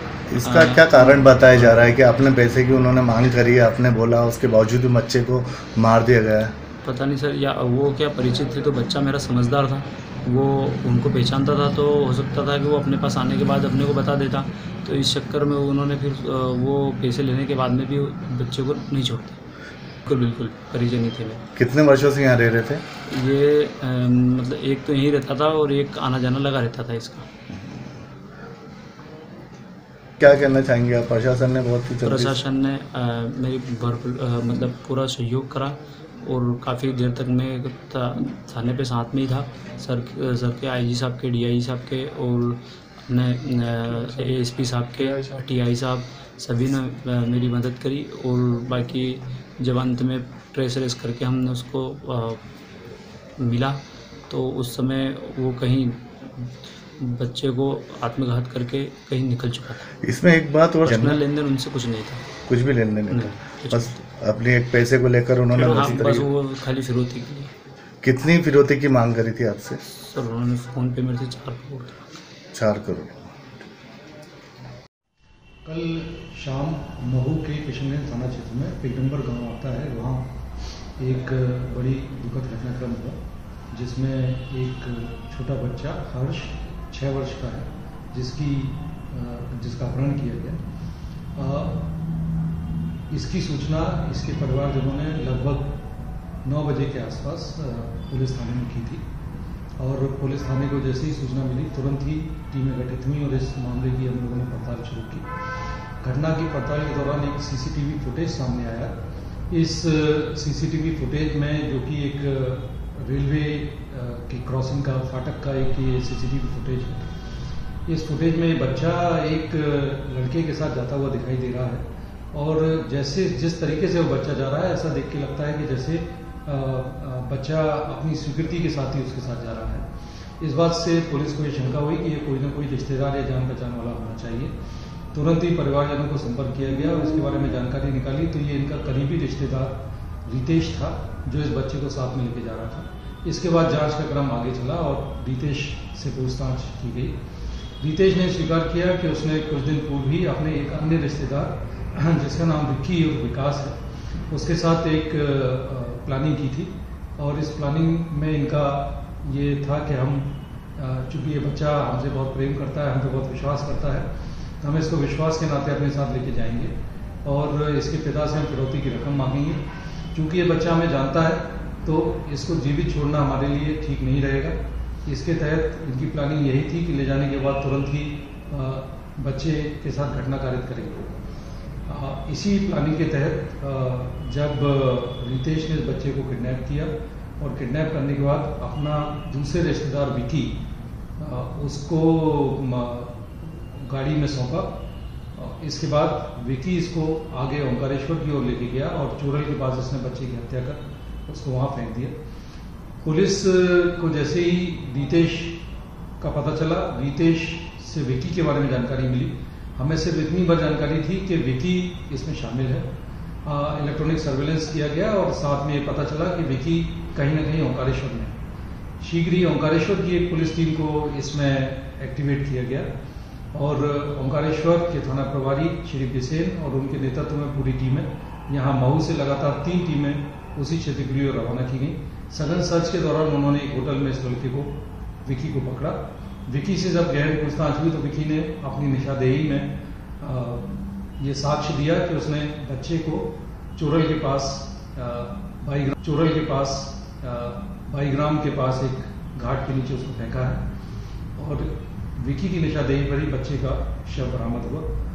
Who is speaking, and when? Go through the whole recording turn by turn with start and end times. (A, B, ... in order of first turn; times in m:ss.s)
0:00.3-0:06.5 A
0:00.4-0:02.0 B
0:06.8-0:19.4 B
0:20.0-0:21.4 B
0:21.6-0:22.8 A
0:23.0-0:27.3 B
0:30.2-0:32.4 A
0:32.0-0:52.4 B
0:53.4-0:59.9 B
1:00.0-1:01.2 A
1:00.8-1:02.2 B
1:02.5-1:06.3 A
1:03.1-1:04.1 B
1:05.5-1:07.5 B
1:08.0-1:09.8 A
1:09.9-1:12.0 B
1:12.5-1:13.5 A
1:15.6-1:20.3 C
1:21.0-1:23.2 C
1:23.7-1:30.6 C
1:31.4-1:31.8 C
1:33.1-1:35.8 C
1:36.4-1:39.0 C
1:39.8-1:45.3 C
1:46.0-1:49.0 C
1:49.5-1:57.1 C
1:57.9-2:09.9 C
2:10.4-2:14.5 C
2:15.1-2:27.2 C
2:27.8-2:33.8 C
2:34.3-2:44.1 C
2:44.6-2:46.7 C
2:47.2-2:49.6 C
2:50.2-3:01.1 C
3:01.9-3:10.6 C
3:11.2-3:14.8 C
3:15.4-3:22.2 C
3:23.0-3:25.6 C
3:26.2-3:32.9 C
3:33.5-3:38.4 C
3:39.0-3:42.9 C
3:43.5-4:10.6 C
4:11.4-4:14.9 C